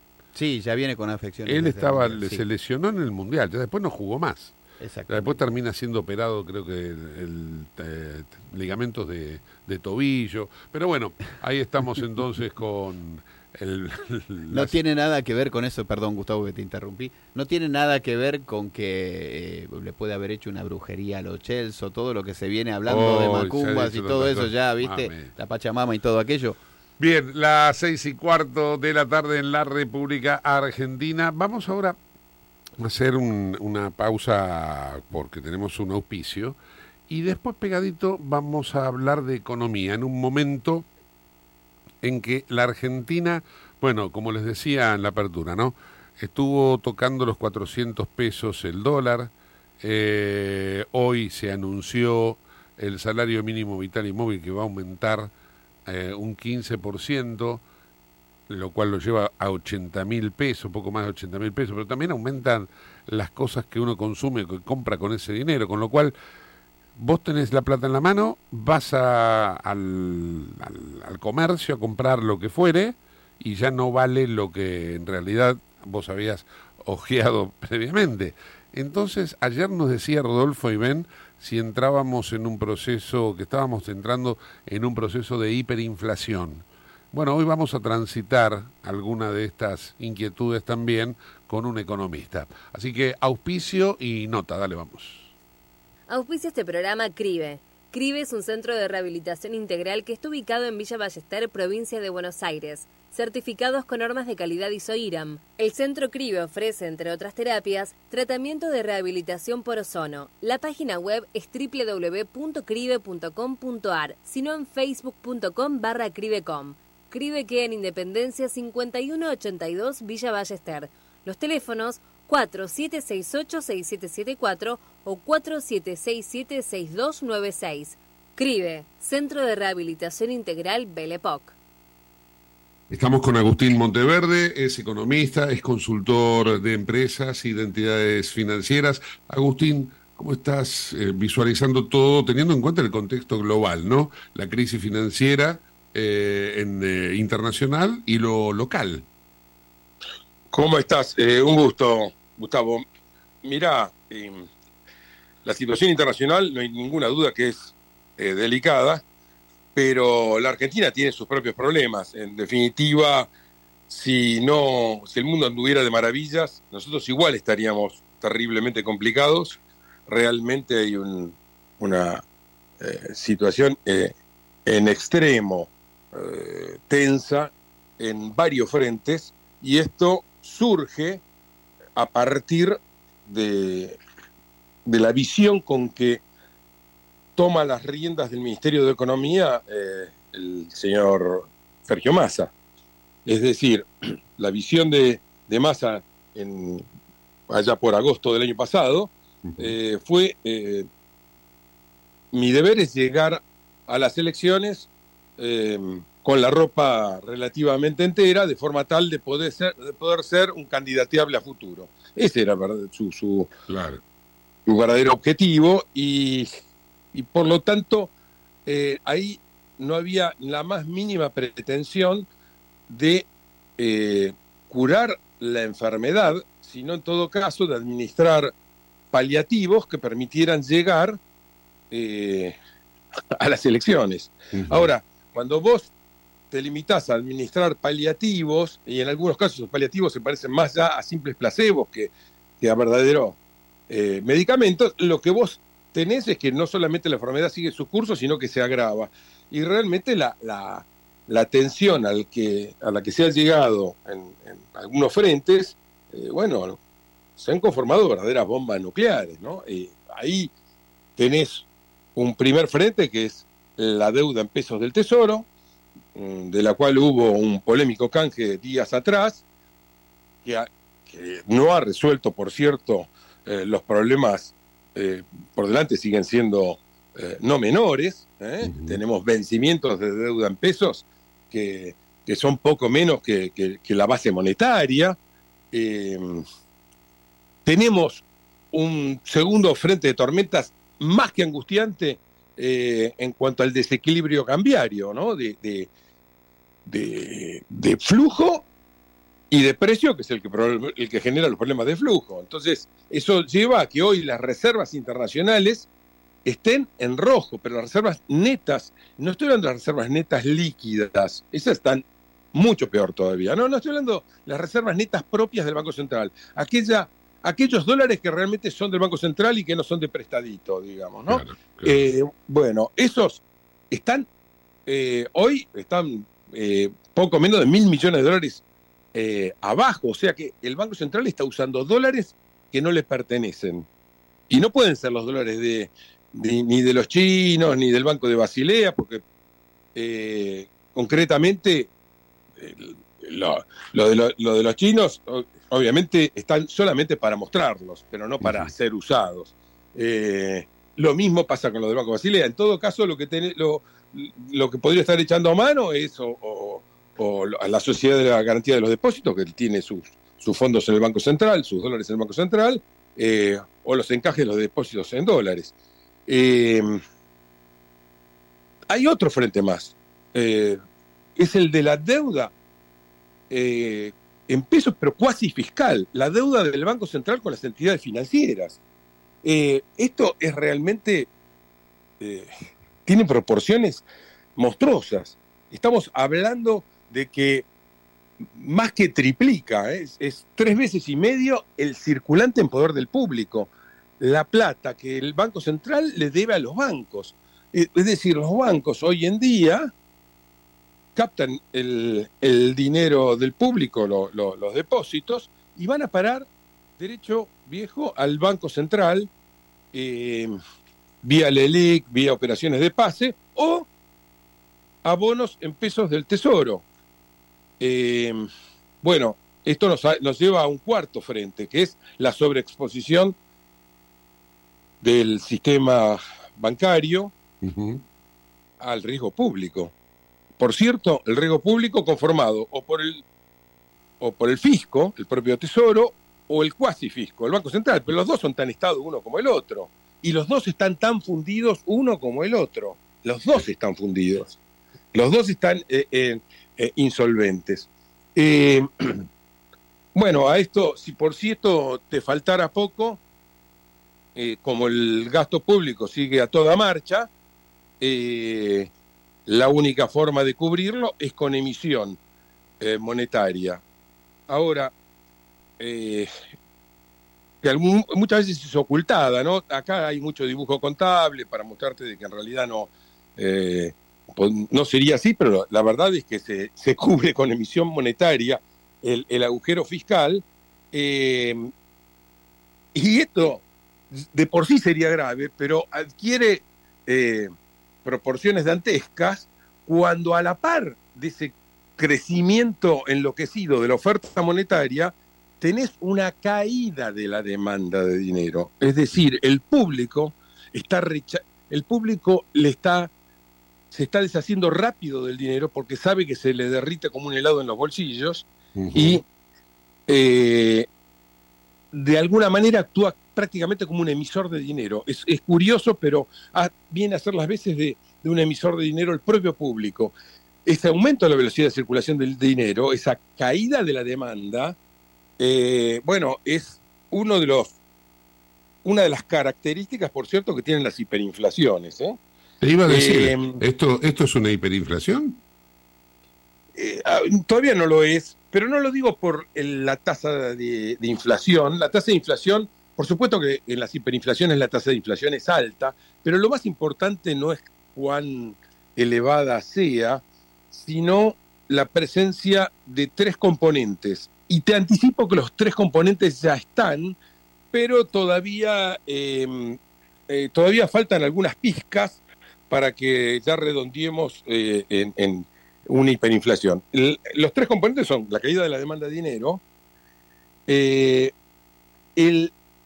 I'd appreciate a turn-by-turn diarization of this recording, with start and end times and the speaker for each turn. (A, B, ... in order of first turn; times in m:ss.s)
0:00.3-0:02.4 A
0:01.4-0:04.5 B
0:04.8-0:05.4 A
0:05.1-0:14.8 B
0:14.5-0:26.6 A
0:22.9-0:25.3 B
0:27.0-0:32.0 B
0:32.8-0:40.9 B
0:42.0-0:55.3 B
0:55.8-0:57.6 B
0:58.5-1:06.1 B
1:07.0-1:35.3 B
1:36.1-2:11.5 C
2:12.9-2:29.0 B
2:30.5-2:32.8 D
2:33.4-2:34.5 D
2:35.4-2:39.0 D
2:39.7-2:43.3 D
2:43.9-2:52.2 D
2:52.8-2:54.1 D
2:54.6-3:01.2 D
3:02.0-3:04.0 D
3:04.8-3:06.2 D
3:07.4-3:12.5 D
3:13.2-3:16.8 D
3:17.5-3:20.9 D
3:19.4-3:19.7 B
3:22.3-3:33.5 D
3:33.7-3:34.0 B
3:34.7-3:36.5 D
3:37.1-3:38.1 D
3:38.6-3:42.3 D
3:42.9-3:43.2 D
3:43.8-3:48.5 D
3:49.1-3:51.2 D
3:51.9-3:52.6 D
3:53.4-3:55.9 D
3:54.5-3:54.9 B
3:56.5-4:03.4 D
4:03.9-4:16.8 D
4:17.4-4:20.5 D
4:21.2-4:25.5 D
4:26.1-4:29.4 D
4:30.4-4:45.2 D
4:38.6-4:39.0 B
4:45.7-4:46.4 D
4:47.6-4:55.9 D
4:56.8-4:58.6 D
4:59.5-5:05.9 D
5:06.4-5:24.3 D
5:21.3-5:22.0 B
5:24.8-5:28.6 D
5:29.1-5:33.8 D
5:34.5-5:39.2 D
5:39.9-5:41.9 D
5:42.6-6:05.7 D
5:48.4-5:48.7 B
6:06.3-6:07.0 D
6:08.9-6:10.8 D
6:11.4-6:12.5 D
6:13.5-6:18.8 D
6:19.4-6:21.3 D
6:22.2-6:22.5 D
6:23.0-6:24.0 D
6:24.6-6:27.6 D
6:28.4-6:39.9 D
6:41.1-6:46.5 D
6:47.0-6:49.3 D
6:49.9-6:50.6 D
6:51.2-6:53.9 D
6:55.0-6:56.8 D
6:57.8-6:58.5 D
6:59.0-7:03.4 D
7:05.0-7:07.3 D
7:07.6-7:08.0 B
7:08.8-7:09.9 D
7:10.6-7:13.2 D
7:14.2-7:24.6 D
7:25.1-7:29.1 D
7:30.1-7:33.2 D
7:34.4-7:37.3 D
7:38.0-7:38.9 D
7:39.4-7:42.2 D
7:42.8-7:43.8 D
7:44.5-7:44.9 D
7:45.8-7:46.3 D
7:47.6-8:01.7 D
8:02.9-8:03.6 D
8:04.1-8:07.5 D
8:08.0-8:23.1 D
8:23.9-8:29.2 D
8:28.8-8:29.2 B
8:30.1-8:30.9 D
8:31.9-8:40.1 D
8:40.6-8:44.8 D
8:45.4-8:47.7 D
8:48.8-8:52.2 D
8:52.6-8:55.4 B
8:52.9-8:53.6 D
8:56.8-9:17.2 D
9:17.7-9:29.6 D
9:30.7-9:31.3 D
9:32.2-9:32.5 D